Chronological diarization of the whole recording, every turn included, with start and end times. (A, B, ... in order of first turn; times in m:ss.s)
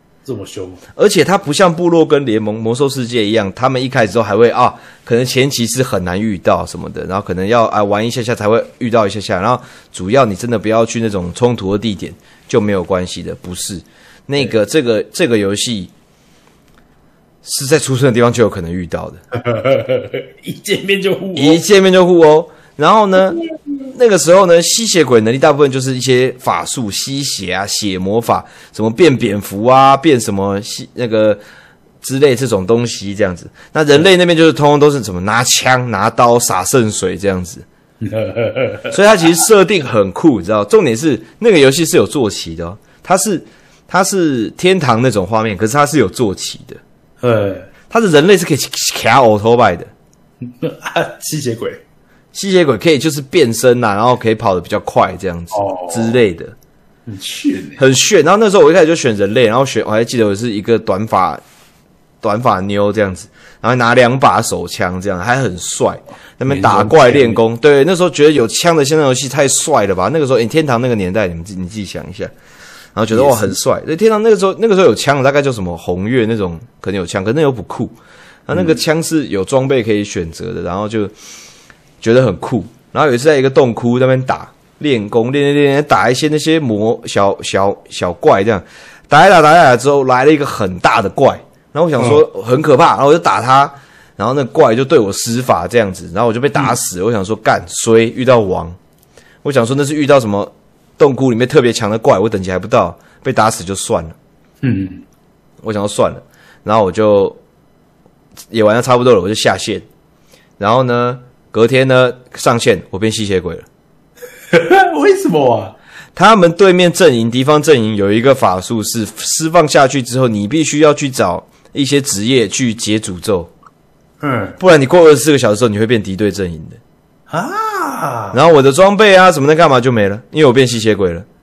0:00.2-0:00.8 A
0:01.0-0:15.9 B
0:17.4-0:19.2 B
0:19.3-0:21.6 A
0:21.4-0:23.4 B
0:23.9-0:31.4 B
0:32.0-0:37.6 B
0:38.0-0:39.0 A
0:38.9-0:46.8 B
0:47.2-0:47.7 A
0:47.9-0:49.9 B
0:50.4-0:51.8 A
0:52.3-0:56.6 B
0:55.5-0:56.2 A
0:57.1-0:57.8 A
0:57.8-1:01.4 B
1:02.2-1:12.3 B
1:06.5-1:07.4 A
1:13.0-1:18.0 B
1:13.1-1:13.6 A
1:18.5-1:21.1 B
1:18.5-1:18.8 A
1:22.0-1:38.8 B
1:32.0-1:32.2 A
1:39.4-1:44.2 B
1:44.6-1:45.0 A
1:45.6-1:47.4 B
1:48.5-1:49.9 B
1:50.6-1:53.7 B
1:54.5-1:55.8 A
1:56.2-2:03.5 B
2:04.2-2:04.6 A
2:04.6-2:06.8 B
2:07.3-2:08.4 A
2:08.3-2:11.3 B